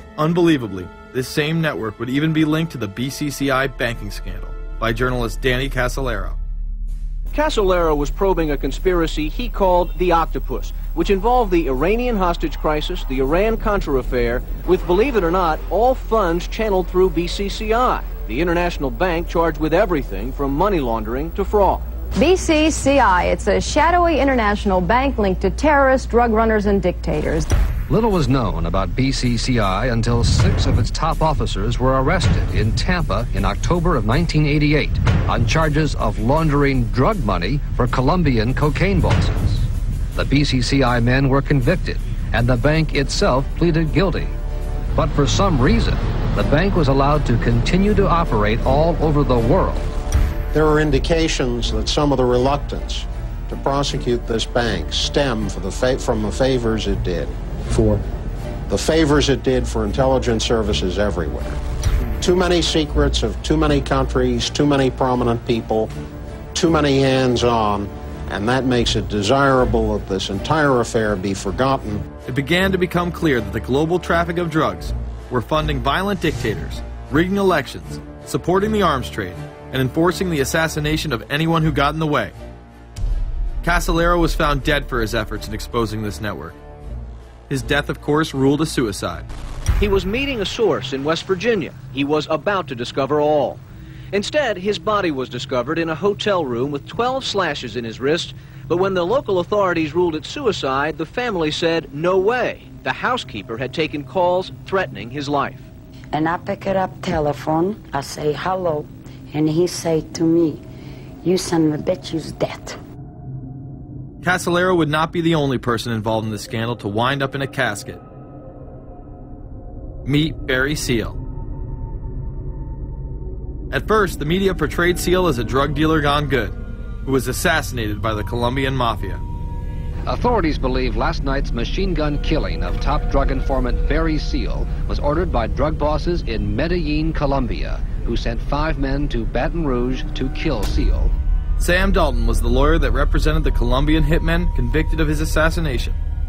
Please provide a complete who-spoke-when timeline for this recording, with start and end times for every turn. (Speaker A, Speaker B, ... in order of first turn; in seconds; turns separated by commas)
Speaker A: 0.2-6.4, Speaker B: 7.3-21.9, Speaker C: 22.2-27.4, Speaker D: 27.9-44.4, Speaker D: 44.9-49.9, Speaker E: 50.5-58.0, Speaker E: 58.7-61.6, Speaker E: 62.2-65.9, Speaker E: 66.5-72.0, Speaker A: 72.3-82.3, Speaker A: 83.6-86.6, Speaker A: 87.5-89.3, Speaker B: 89.8-93.6, Speaker B: 94.1-105.7, Speaker F: 106.1-110.6, Speaker F: 111.2-112.8, Speaker A: 114.2-118.0, Speaker A: 120.0-121.2, Speaker A: 123.7-129.2, Speaker D: 130.1-141.1, Speaker A: 141.6-146.0